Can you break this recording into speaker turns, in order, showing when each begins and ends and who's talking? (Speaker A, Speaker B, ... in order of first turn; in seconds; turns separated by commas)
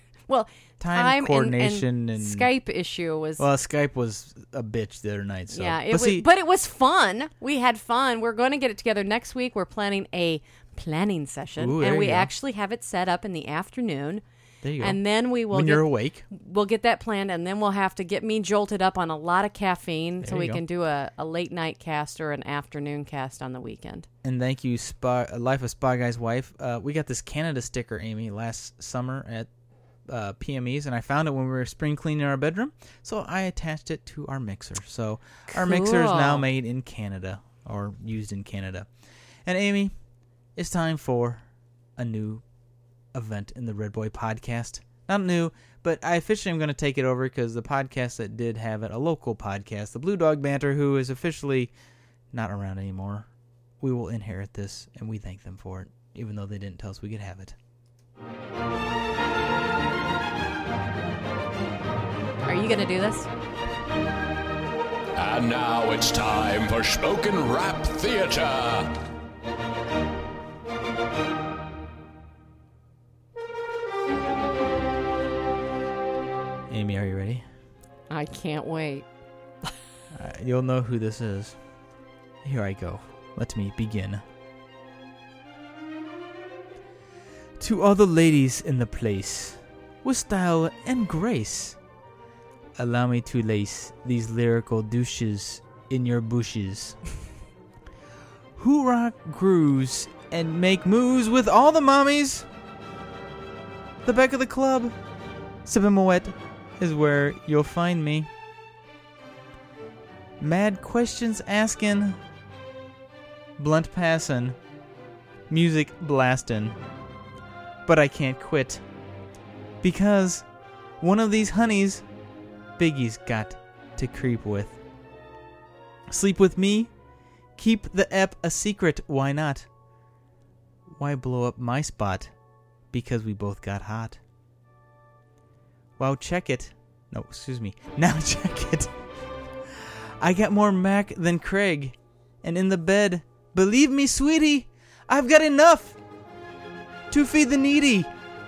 Speaker A: 0.3-3.4, Speaker B: 0.8-2.5, Speaker B: 3.4-6.2, Speaker A: 5.5-14.2, Speaker B: 11.6-12.3, Speaker B: 14.6-16.2, Speaker A: 14.8-24.1, Speaker B: 20.2-20.6, Speaker B: 24.2-29.5, Speaker B: 30.1-38.9, Speaker A: 35.5-36.5, Speaker B: 39.4-39.9, Speaker B: 40.5-41.4, Speaker B: 42.0-42.4, Speaker B: 43.1-51.7, Speaker B: 52.3-53.3, Speaker B: 53.8-57.5, Speaker A: 62.4-63.3, Speaker C: 65.2-68.9, Speaker B: 76.7-77.4, Speaker A: 78.1-79.0, Speaker B: 80.1-81.6, Speaker B: 82.4-84.2, Speaker B: 87.6-91.8, Speaker B: 92.8-97.0, Speaker B: 98.5-102.5, Speaker B: 104.0-104.9, Speaker B: 105.6-108.3, Speaker B: 110.4-112.2, Speaker B: 113.6-114.6, Speaker B: 115.5-116.7, Speaker B: 117.8-118.8, Speaker B: 119.8-120.4, Speaker B: 121.0-122.0, Speaker B: 122.8-124.8, Speaker B: 126.1-126.9, Speaker B: 127.6-129.7, Speaker B: 130.9-132.3, Speaker B: 132.9-134.2, Speaker B: 136.0-138.9, Speaker B: 139.8-146.0, Speaker B: 147.1-148.1